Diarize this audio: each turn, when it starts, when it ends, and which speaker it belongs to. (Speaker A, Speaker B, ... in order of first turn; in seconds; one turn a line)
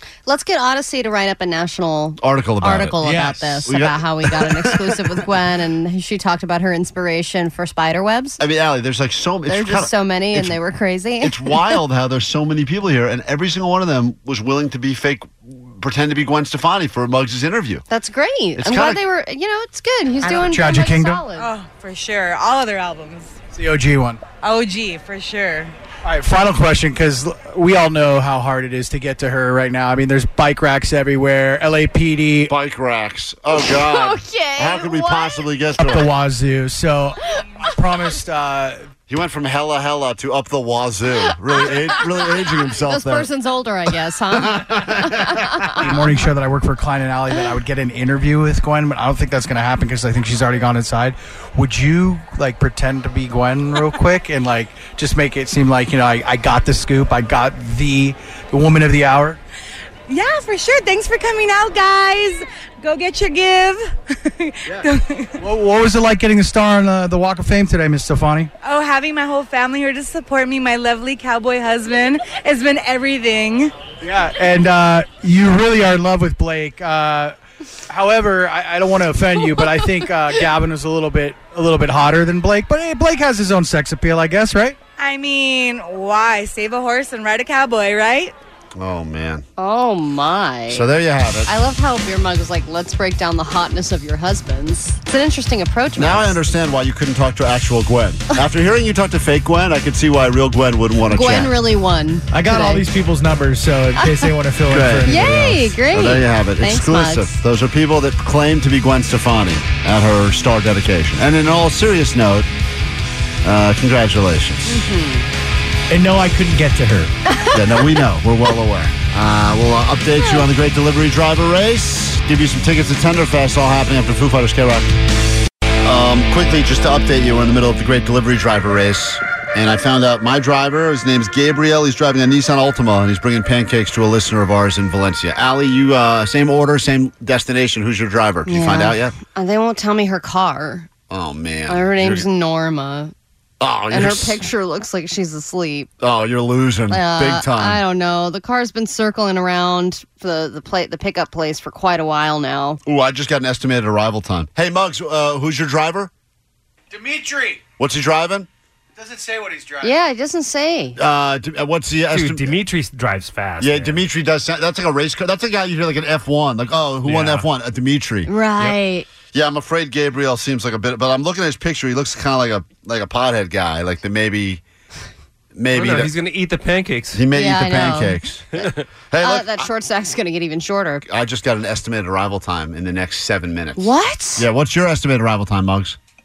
Speaker A: 0.2-8.4
Speaker B: 2.2-3.1
Speaker C: 3.0-3.7
Speaker B: 3.6-5.2
Speaker B: 8.4-10.6
Speaker A: 9.5-11.8
Speaker B: 11.2-17.9
Speaker A: 17.9-21.5
Speaker B: 18.6-19.0
Speaker C: 20.3-21.2
Speaker D: 21.3-23.4
Speaker C: 23.5-24.2
Speaker D: 24.4-25.8
Speaker C: 26.0-32.5
Speaker B: 32.5-36.1
Speaker A: 33.5-35.5
Speaker C: 35.8-38.9
Speaker B: 39.1-43.3
Speaker A: 41.6-46.1
Speaker B: 44.3-45.9
Speaker C: 45.8-59.4
Speaker D: 60.1-65.4
Speaker C: 65.4-68.5
Speaker D: 68.6-73.7
Speaker C: 74.0-77.3
Speaker C: 77.9-84.8
Speaker D: 85.0-88.3
Speaker B: 88.8-89.4
Speaker A: 89.6-90.9
Speaker B: 90.7-91.5
Speaker A: 91.5-96.4
Speaker B: 96.0-101.5
Speaker A: 101.1-102.9
Speaker C: 102.3-105.8
Speaker A: 104.0-104.3
Speaker B: 104.7-105.2
Speaker A: 105.0-107.3
Speaker B: 105.9-112.5
Speaker B: 113.4-114.8
Speaker A: 114.7-115.3
Speaker C: 115.9-117.1
Speaker A: 117.3-117.8
Speaker B: 117.5-124.9
Speaker A: 120.2-120.4
Speaker B: 125.8-139.1
Speaker A: 138.4-140.9
Speaker B: 141.1-142.2
Speaker A: 141.7-143.1
Speaker B: 143.6-144.4
Speaker A: 143.9-145.9
Speaker B: 146.0-147.8
Speaker A: 146.9-152.8
Speaker B: 152.8-156.1
Speaker C: 156.9-157.6
Speaker B: 157.8-158.5
Speaker C: 159.0-159.9
Speaker A: 159.8-161.0
Speaker B: 160.9-162.6
Speaker E: 162.1-164.0
Speaker B: 163.6-168.3
Speaker E: 167.0-167.4
Speaker A: 168.2-169.1
Speaker B: 169.3-174.6
Speaker B: 175.5-176.1
Speaker E: 175.7-177.2
Speaker B: 177.1-179.7
Speaker A: 177.3-178.2
Speaker E: 178.6-178.8
Speaker A: 179.2-181.0
Speaker B: 181.0-186.0
Speaker A: 183.8-184.4